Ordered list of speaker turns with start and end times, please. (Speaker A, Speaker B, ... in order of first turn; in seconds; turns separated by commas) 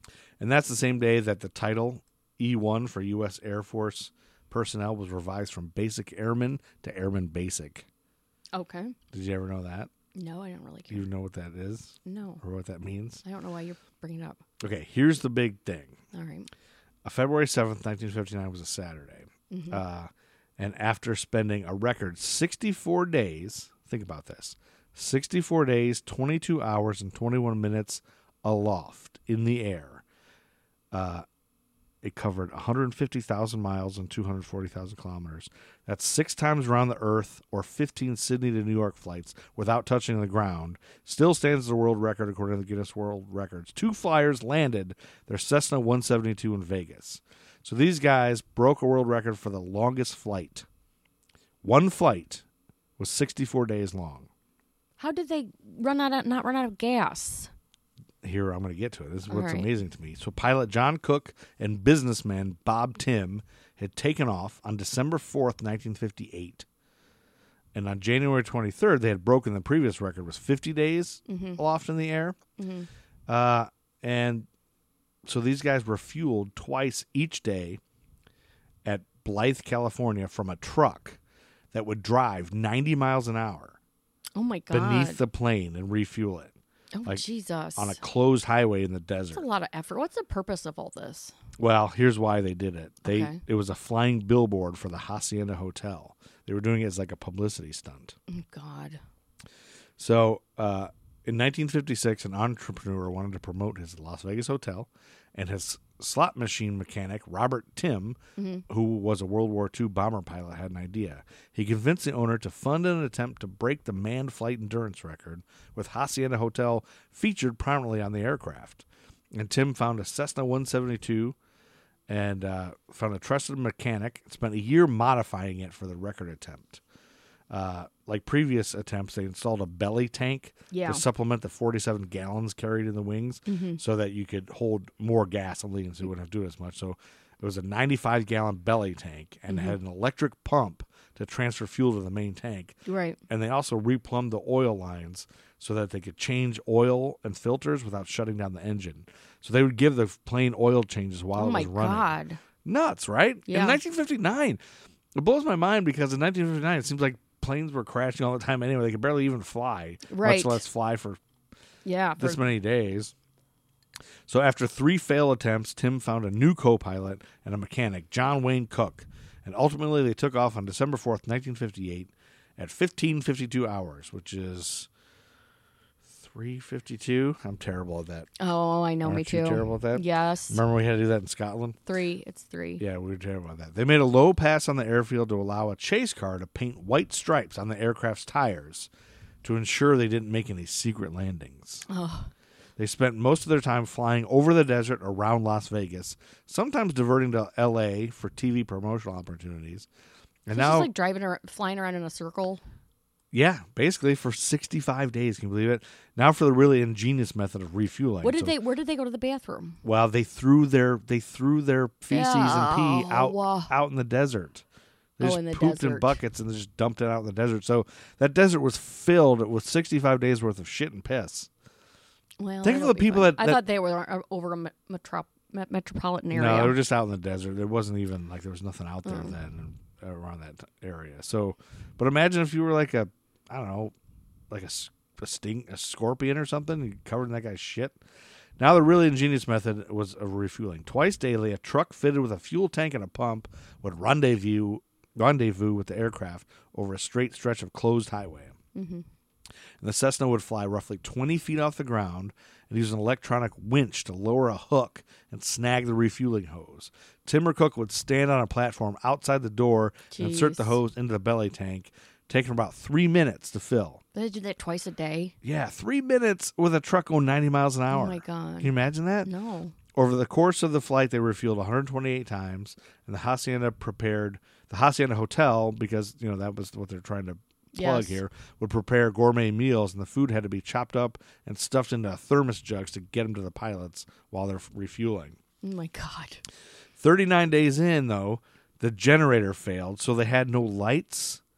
Speaker A: 0.4-7.9, Speaker B: 8.5-8.9, Speaker A: 9.1-9.9, Speaker B: 10.1-11.0, Speaker A: 10.9-13.2, Speaker B: 12.0-12.4, Speaker B: 13.2-14.4, Speaker A: 14.6-16.0, Speaker B: 16.1-16.5, Speaker A: 17.0-30.0, Speaker B: 19.5-19.8, Speaker A: 30.9-31.2, Speaker A: 32.0-50.6, Speaker A: 51.6-52.4, Speaker A: 53.0-54.3, Speaker B: 55.0-57.5, Speaker A: 58.2-66.7, Speaker B: 59.3-59.7, Speaker A: 67.7-72.4, Speaker B: 71.3-71.6, Speaker B: 72.6-72.9, Speaker A: 73.3-74.5, Speaker A: 75.2-77.8, Speaker A: 78.8-81.2, Speaker A: 81.7-83.8, Speaker B: 84.3-85.2, Speaker A: 84.7-86.5, Speaker B: 86.9-88.0, Speaker A: 87.8-89.4, Speaker B: 89.3-91.3, Speaker A: 91.6-98.2, Speaker B: 93.0-93.4, Speaker B: 98.3-99.0, Speaker A: 100.0-121.3, Speaker B: 108.4-108.6, Speaker A: 122.1-126.8, Speaker A: 127.5-152.1, Speaker B: 130.7-131.0, Speaker B: 133.5-133.8, Speaker B: 139.5-139.8, Speaker B: 142.8-143.2, Speaker B: 151.3-152.4, Speaker A: 152.6-154.6, Speaker B: 153.5-153.8, Speaker A: 155.1-161.2, Speaker B: 160.1-160.6, Speaker B: 161.8-162.4, Speaker A: 162.2-163.1, Speaker A: 164.3-174.9, Speaker A: 176.1-178.3, Speaker B: 178.4-180.6, Speaker A: 179.0-181.8, Speaker B: 181.8-182.8, Speaker A: 182.8-188.9, Speaker A: 189.4-191.9, Speaker B: 191.9-192.3, Speaker A: 192.8-199.9, Speaker A: 200.4-200.9, Speaker B: 200.5-202.6, Speaker A: 203.3-208.5, Speaker B: 208.2-209.8, Speaker A: 209.8-214.6, Speaker B: 212.1-213.7, Speaker A: 215.2-221.5, Speaker B: 215.2-216.2, Speaker B: 222.4-226.8, Speaker A: 222.6-223.6, Speaker A: 226.3-233.9, Speaker B: 229.0-229.3, Speaker A: 234.5-238.0, Speaker A: 238.6-248.6, Speaker B: 248.7-249.1, Speaker A: 249.8-264.0, Speaker B: 260.1-260.8, Speaker B: 264.1-265.3, Speaker A: 265.4-269.3, Speaker B: 267.9-268.7, Speaker B: 269.2-269.7, Speaker A: 269.9-285.4, Speaker B: 277.7-278.2, Speaker B: 285.6-286.4, Speaker A: 287.0-291.4